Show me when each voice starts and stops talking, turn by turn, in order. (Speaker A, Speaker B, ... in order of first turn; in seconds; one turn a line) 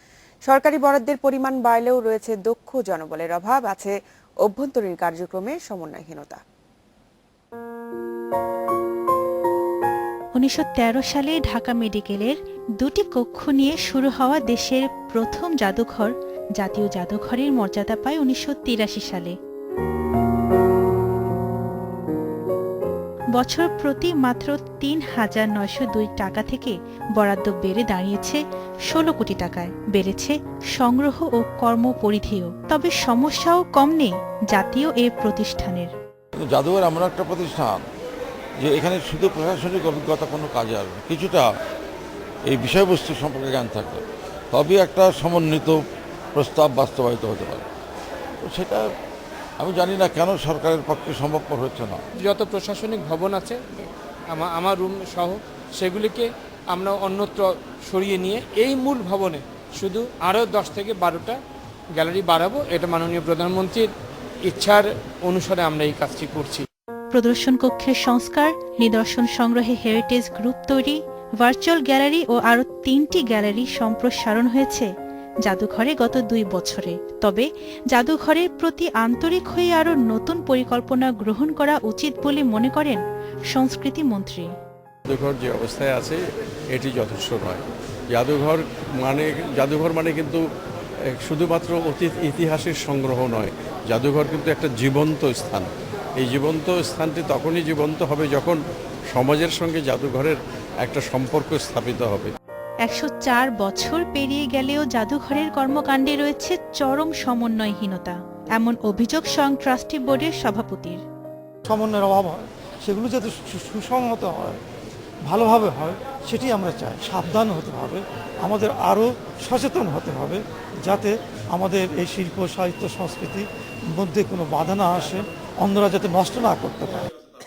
Speaker A: 0.5-6.4
Speaker B: 10.4-19.4
Speaker B: 23.4-35.9
Speaker C: 36.4-37.8
Speaker C: 38.6-41.5
Speaker C: 42.5-44.0
Speaker C: 44.5-45.8
Speaker C: 46.4-47.6
Speaker C: 48.4-48.9
Speaker C: 49.6-52.0
Speaker D: 52.2-61.4
Speaker D: 62.0-63.9
Speaker D: 64.5-66.7
Speaker B: 67.1-74.9
Speaker B: 75.4-83.0
Speaker B: 83.5-84.5
Speaker E: 85.1-86.2
Speaker E: 86.7-90.4
Speaker E: 91.2-98.6
Speaker E: 99.1-102.3
Speaker B: 102.8-111.0
Speaker F: 111.7-114.6
Speaker F: 115.3-127.1